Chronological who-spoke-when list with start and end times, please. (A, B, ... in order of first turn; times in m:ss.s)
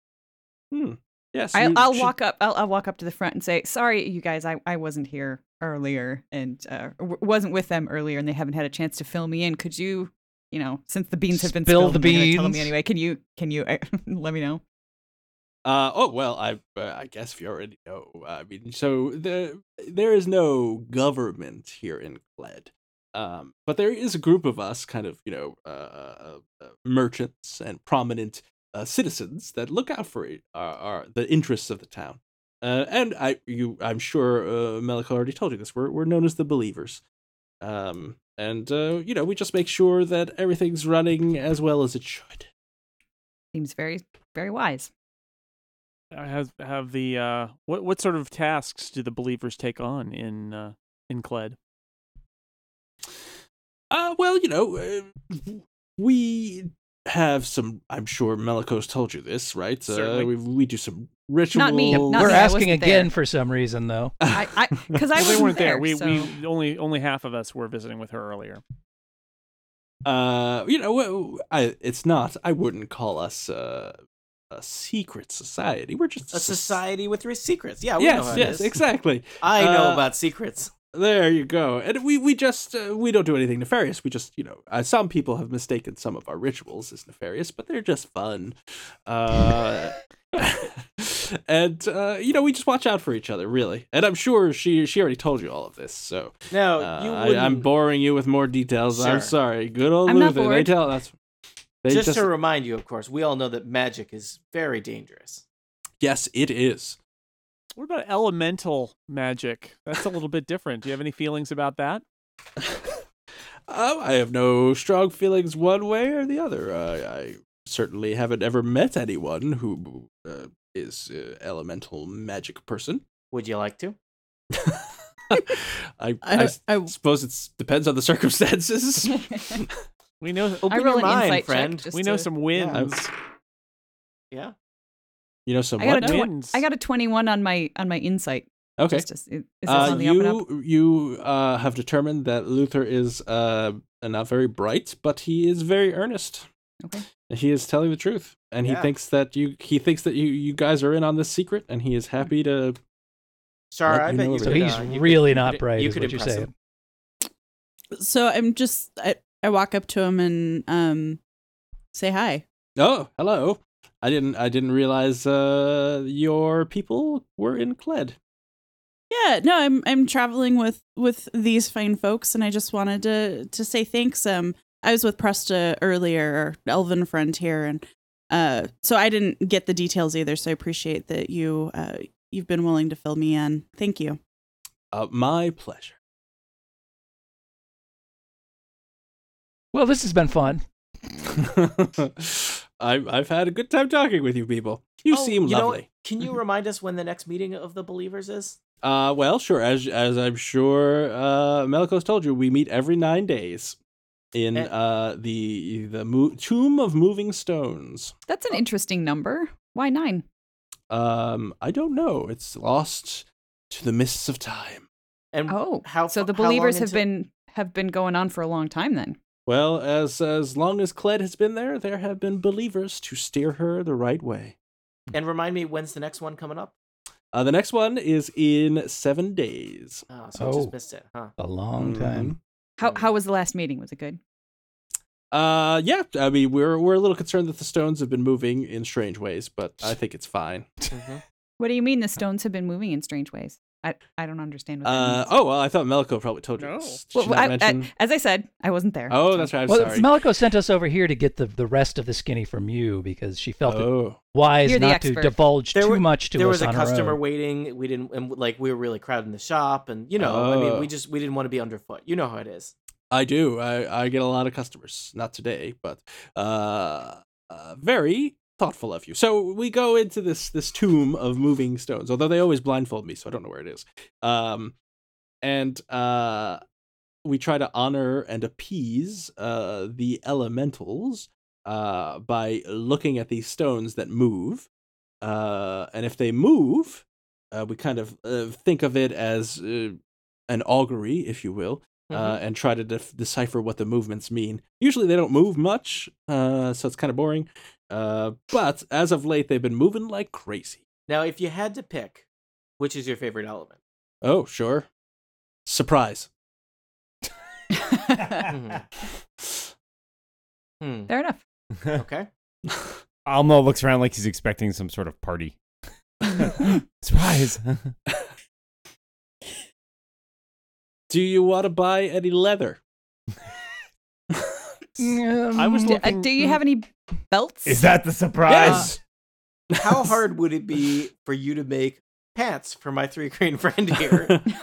0:00.7-0:02.1 A
0:01.5-0:14.6 B
0:11.3-0:12.7 C
0:15.6-0:37.0 A
0:37.6-0:42.5 A
0:43.5-0:44.9 B
0:46.1-0:51.6 D
0:53.9-1:02.4 A
0:59.9-1:00.3 D
1:01.5-1:03.1 B
1:01.9-1:04.1 C
1:04.2-1:04.5 A
1:04.3-1:06.3 B
1:05.1-1:08.6 D
1:10.0-1:14.0 A
1:14.5-1:16.8 A
1:16.3-1:18.8 E
1:18.0-1:20.1 A
1:19.4-1:20.7 E
1:20.8-1:41.1 A
1:36.5-1:37.7 E
1:38.9-1:39.3 E
1:40.0-1:40.7 B
1:41.8-1:42.3 A
1:41.9-1:45.4 E
1:46.0-1:47.0 A
1:47.8-1:52.0 D
1:52.6-1:53.0 A
1:53.7-2:03.0 A
2:03.3-2:04.0 E
2:04.5-2:09.7 A
2:06.2-2:06.9 F
2:10.2-2:10.7 D
2:10.6-2:11.9 E
2:10.7-2:12.3 B
2:11.9-2:13.1 D
2:12.5-2:12.9 E
2:12.7-2:13.0 A
2:15.4-2:16.3 A
2:15.8-2:20.4 B
2:15.9-2:16.6 D
2:18.8-2:19.0 A
2:19.6-2:26.5 A
2:26.8-2:27.1 B
2:27.2-2:32.8 A
2:28.6-2:28.9 E
2:33.7-2:36.5 E
2:33.9-2:34.9 A
2:34.4-2:36.5 C
2:37.9-2:41.2 F
2:41.9-2:42.4 F
2:42.8-2:48.2 A
2:49.1-3:04.2 F
3:04.9-3:06.0 A
3:09.7-3:10.6 C
3:11.4-3:15.8 A
3:15.1-3:18.6 E
3:18.8-3:23.8 A
3:24.3-3:28.1 A
3:28.3-3:30.2 B
3:30.9-3:34.8 A
3:35.3-3:37.0 E
3:35.5-3:39.2 B
3:39.5-3:44.6 A
3:45.1-3:46.7 E
3:47.3-3:50.0 A
3:50.1-3:51.3 E
3:50.4-3:50.7 C
3:51.4-3:52.3 C
3:51.8-3:52.4 A
3:52.8-3:54.2 B
3:52.8-3:53.1 E
3:55.3-4:00.8 A
4:00.9-4:01.2 E
4:01.6-4:05.3 B
4:04.8-4:07.9 A
4:06.6-4:07.0 D
4:07.1-4:09.5 B
4:09.1-4:10.1 A
4:09.7-4:17.2 C
4:13.6-4:14.2 A
4:14.6-4:15.4 B
4:15.7-4:22.7 E
4:20.2-4:20.9 A
4:23.1-4:34.7 A
4:35.4-4:36.6 A
4:37.2-4:44.7 A
4:45.2-5:00.8 A
4:52.1-4:52.4 E
5:01.1-5:02.2 E
5:02.8-5:03.8 E
5:04.2-5:04.9 A
5:05.6-5:06.3 A
5:07.9-5:08.4 B
5:08.4-5:08.8 E
5:10.8-5:11.1 E
5:11.1-5:11.4 B
5:11.9-5:12.3 E
5:13.2-5:15.6 G
5:16.4-5:17.9 G
5:21.1-5:22.8 A
5:24.3-5:24.6 A
5:25.0-5:26.1 C
5:25.5-5:26.5 D
5:25.8-5:27.9 B
5:27.6-5:29.0 G
5:28.4-5:28.9 A
5:29.7-5:30.1 A
5:29.7-5:34.3 E
5:34.1-5:34.5 A